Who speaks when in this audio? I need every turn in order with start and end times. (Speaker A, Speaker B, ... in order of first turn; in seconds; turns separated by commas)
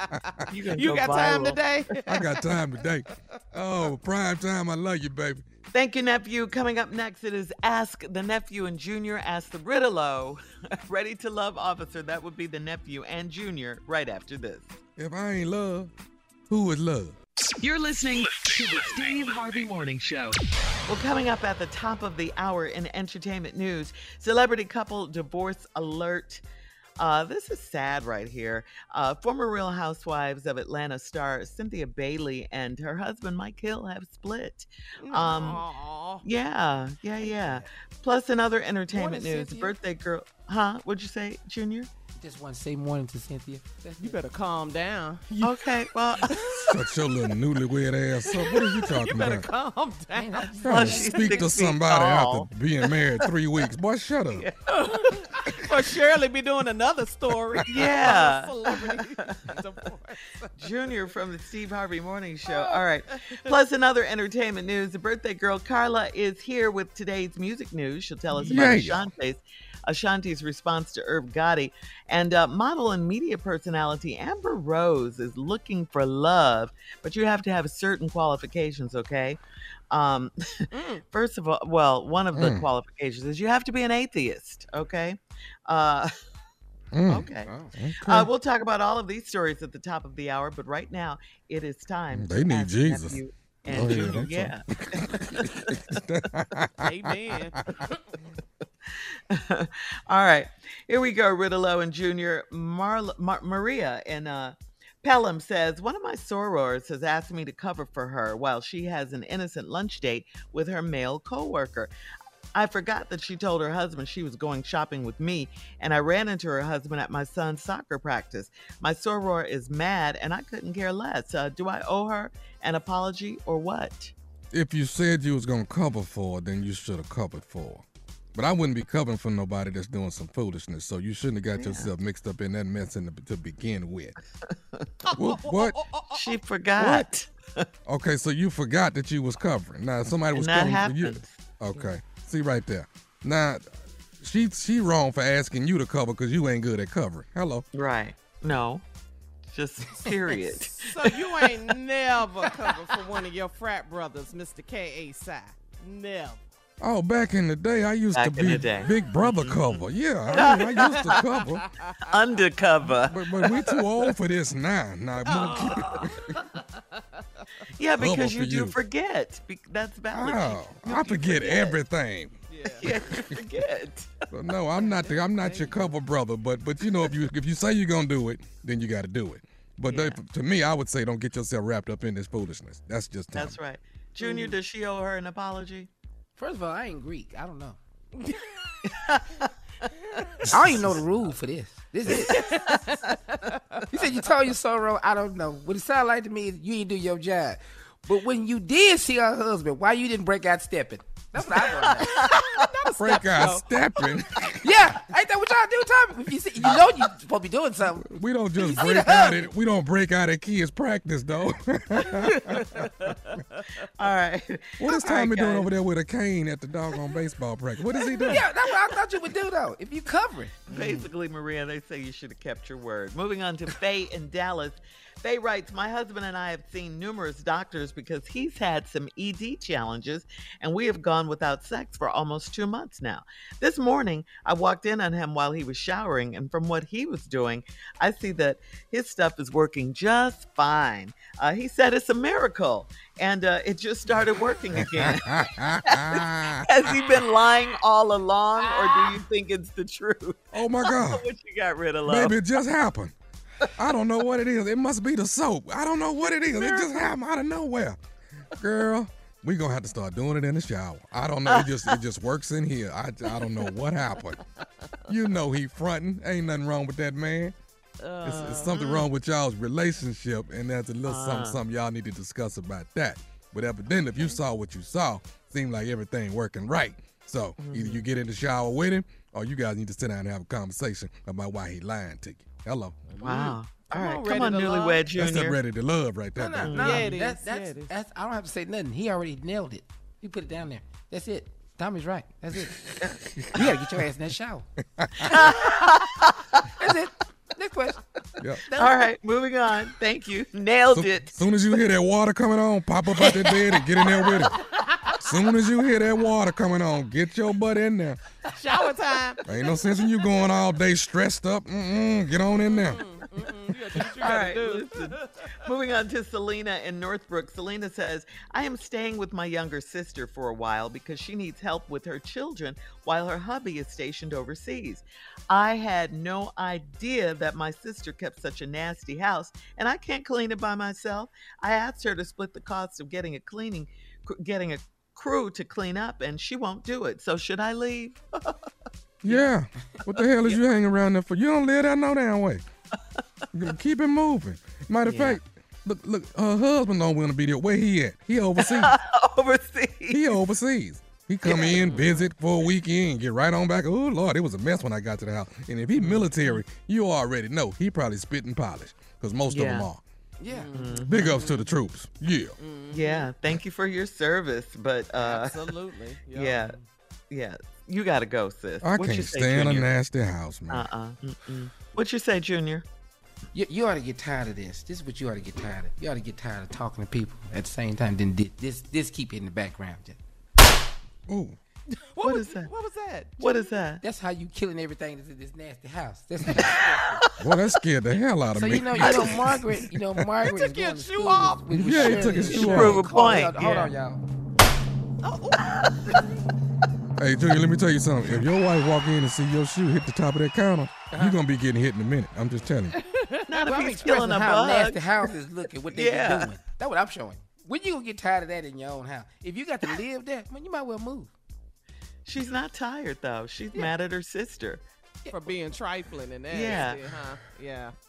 Speaker A: 0.5-1.7, Speaker B: 0.7-2.6, Speaker C: 2.1-5.4, Speaker A: 5.7-14.7, Speaker C: 15.0-15.9, Speaker C: 16.5-17.1, Speaker D: 17.6-20.4, Speaker A: 20.9-26.4, Speaker A: 27.0-35.6, Speaker B: 35.0-36.2, Speaker A: 36.2-41.9, Speaker E: 37.2-37.6, Speaker E: 38.9-39.8, Speaker E: 42.2-44.2, Speaker B: 44.0-46.8, Speaker A: 45.4-46.4, Speaker C: 46.7-49.5, Speaker B: 48.5-51.5, Speaker E: 50.1-51.1, Speaker C: 50.6-54.5, Speaker A: 50.7-52.5, Speaker B: 54.7-60.7, Speaker A: 57.7-59.0, Speaker A: 60.6-79.4, Speaker B: 62.5-62.8, Speaker C: 68.4-69.1, Speaker A: 79.9-86.1, Speaker B: 80.7-81.0, Speaker C: 82.3-82.7, Speaker C: 86.9-88.3, Speaker A: 87.1-87.5, Speaker E: 87.5-87.7, Speaker A: 88.0-96.0, Speaker C: 92.1-97.1, Speaker B: 96.8-97.6, Speaker A: 99.3-111.9, Speaker A: 112.5-124.1, Speaker C: 124.5-127.8, Speaker C: 128.3-134.2, Speaker A: 131.6-131.9, Speaker B: 135.1-137.1, Speaker C: 135.2-135.8, Speaker A: 136.1-137.7, Speaker C: 137.9-143.7, Speaker A: 140.3-141.9, Speaker C: 144.2-147.7, Speaker A: 147.7-148.8, Speaker A: 149.5-151.6, Speaker B: 150.8-156.4, Speaker C: 156.8-161.6, Speaker A: 158.2-161.3, Speaker B: 160.3-162.2, Speaker A: 162.1-164.1, Speaker C: 163.1-166.3, Speaker B: 165.2-166.1, Speaker A: 165.4-166.0, Speaker A: 167.8-171.8, Speaker C: 168.0-168.8, Speaker C: 170.1-172.9, Speaker B: 172.5-172.9, Speaker A: 172.8-174.1, Speaker C: 174.3-183.6, Speaker B: 174.8-175.9, Speaker B: 179.9-180.2, Speaker A: 183.3-185.9, Speaker B: 184.2-184.6, Speaker E: 186.4-187.8, Speaker A: 188.9-189.4, Speaker E: 190.5-192.4, Speaker B: 192.1-193.8, Speaker E: 193.9-202.3, Speaker B: 201.4-204.2, Speaker C: 203.0-204.7, Speaker E: 204.6-208.1, Speaker C: 208.0-212.6, Speaker E: 208.6-209.3, Speaker A: 214.0-215.7, Speaker C: 214.8-218.5, Speaker E: 218.2-220.5, Speaker A: 220.7-252.4, Speaker C: 220.7-221.1, Speaker C: 244.8-246.7, Speaker C: 250.5-251.2, Speaker C: 252.1-253.1, Speaker C: 253.8-258.0, Speaker A: 256.2-256.9, Speaker C: 258.6-264.4, Speaker C: 265.1-267.5, Speaker B: 268.0-268.8, Speaker C: 268.2-283.0, Speaker A: 268.7-269.1, Speaker A: 271.1-271.6, Speaker A: 277.6-278.0, Speaker E: 283.1-283.5, Speaker A: 283.2-285.6, Speaker B: 283.2-285.1, Speaker C: 285.1-286.7, Speaker E: 286.4-292.9, Speaker A: 286.6-287.1, Speaker B: 286.7-287.9, Speaker C: 293.4-293.6, Speaker E: 293.5-294.7, Speaker C: 295.0-295.3, Speaker A: 295.2-296.3, Speaker E: 296.8-298.0, Speaker E: 298.7-299.1, Speaker A: 298.8-301.5, Speaker C: 300.9-304.6, Speaker E: 303.1-304.3, Speaker C: 305.3-308.2, Speaker B: 308.6-310.1, Speaker C: 309.4-313.0, Speaker B: 312.5-315.5, Speaker A: 314.2-338.5, Speaker C: 339.2-342.6, Speaker C: 343.5-348.9, Speaker A: 345.1-345.4, Speaker A: 348.6-350.4, Speaker C: 350.1-360.0, Speaker A: 351.4-352.2, Speaker B: 351.6-352.1, Speaker B: 356.1-356.6, Speaker A: 359.5-359.9, Speaker B: 360.4-361.7, Speaker E: 360.4-360.9, Speaker A: 360.7-361.2, Speaker C: 361.1-362.6, Speaker B: 362.6-363.3, Speaker A: 362.9-365.7, Speaker B: 365.2-366.8, Speaker A: 366.3-366.8, Speaker A: 367.3-369.9, Speaker C: 368.8-370.9, Speaker A: 370.7-372.9, Speaker E: 373.5-380.2, Speaker C: 381.3-381.6, Speaker B: 382.1-383.8, Speaker A: 382.2-382.7, Speaker A: 383.4-384.0, Speaker E: 384.0-386.7, Speaker B: 386.5-387.1, Speaker C: 387.4-390.3, Speaker E: 388.5-394.2, Speaker A: 389.0-389.5, Speaker B: 390.5-392.7, Speaker C: 391.7-393.0, Speaker A: 392.5-393.9, Speaker B: 393.6-393.9, Speaker B: 395.2-396.2, Speaker C: 397.2-403.0, Speaker E: 401.1-401.4, Speaker B: 403.0-404.0, Speaker A: 403.5-405.3, Speaker E: 403.6-411.3, Speaker A: 405.9-406.6, Speaker A: 412.3-414.8, Speaker B: 415.3-417.9, Speaker A: 416.5-417.1